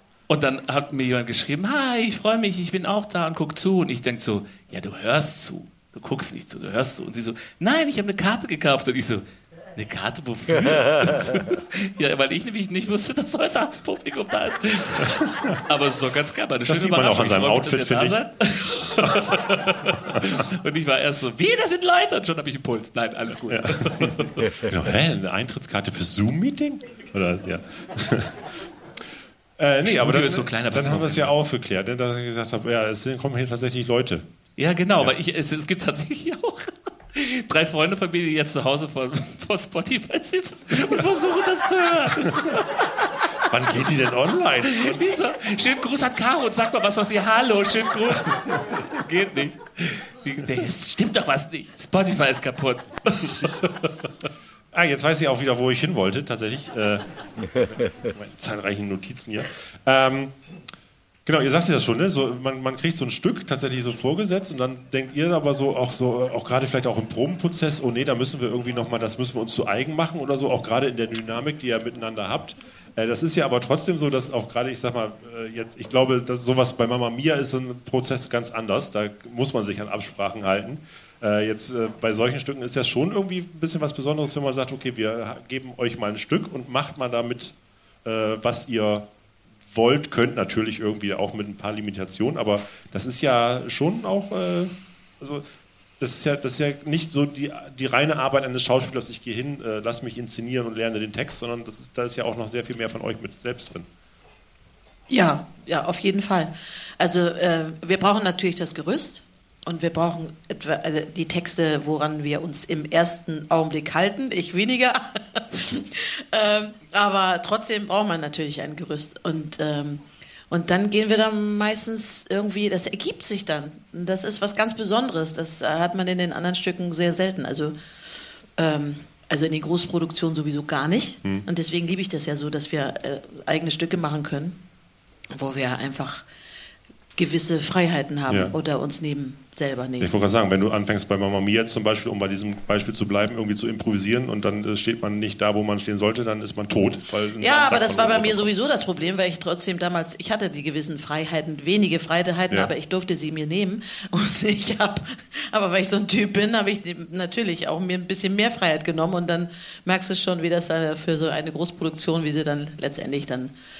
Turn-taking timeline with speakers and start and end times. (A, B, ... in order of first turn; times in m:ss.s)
0:00.3-0:09.2 A
0:09.8-0:24.7 A
0:16.7-0:18.2 B
0:19.0-0:19.5 B
0:23.5-0:28.4 B
0:29.6-0:34.2 B
0:29.8-0:31.3 A
0:34.6-0:43.4 A
0:42.1-0:42.5 B
0:43.5-0:45.1 B
0:44.7-0:54.1 A
0:54.7-1:00.3 B
1:01.2-1:29.1 B
1:29.7-1:35.4 B
1:36.0-1:43.8 B
1:45.1-2:07.8 C
2:08.6-2:14.6 C
2:15.3-2:16.2 C
2:17.1-2:20.1 C
2:18.3-2:18.5 B
2:20.0-2:28.5 B
2:27.4-2:43.5 C